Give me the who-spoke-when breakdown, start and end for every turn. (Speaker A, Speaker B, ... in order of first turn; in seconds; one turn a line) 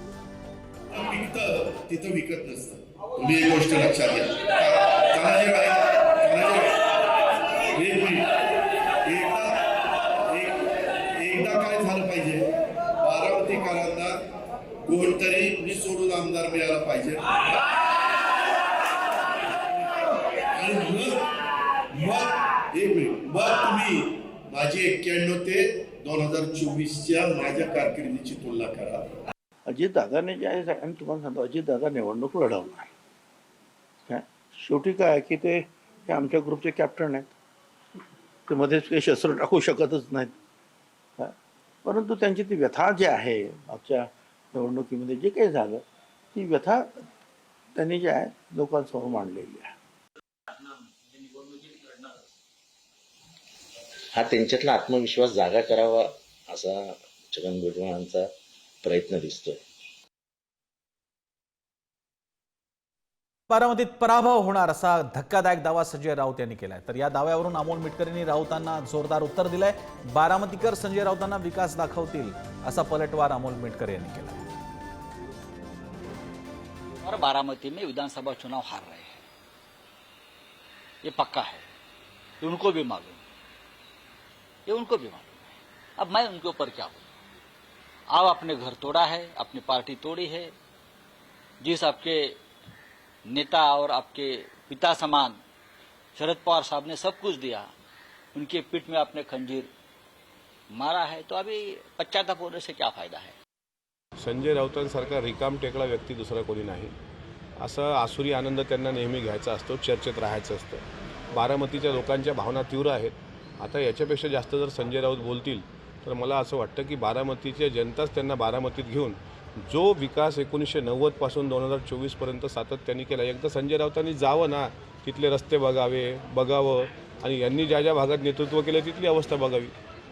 Speaker A: 0.9-6.9
Speaker A: 7.7-8.3
Speaker A: 9.0-14.2
Speaker A: 14.8-17.8
Speaker A: 20.5-21.3
Speaker A: 21.9-29.2
Speaker B: 29.7-32.9
Speaker B: 34.1-37.3
Speaker B: 38.5-40.3
Speaker B: 41.2-47.0
Speaker B: 47.7-49.7
Speaker C: 51.3-52.0
Speaker D: 54.1-58.2
Speaker D: 58.8-59.5
Speaker E: 63.5-74.5
Speaker C: 77.0-79.2
Speaker C: 81.0-81.6
Speaker C: 82.4-83.2
Speaker C: 84.7-87.0
Speaker C: 88.1-90.5
Speaker C: 91.6-92.4
Speaker C: 93.3-95.4
Speaker C: 96.1-97.7
Speaker C: 98.3-99.7
Speaker C: 100.7-103.3
Speaker F: 104.2-106.9
Speaker F: 107.6-129.7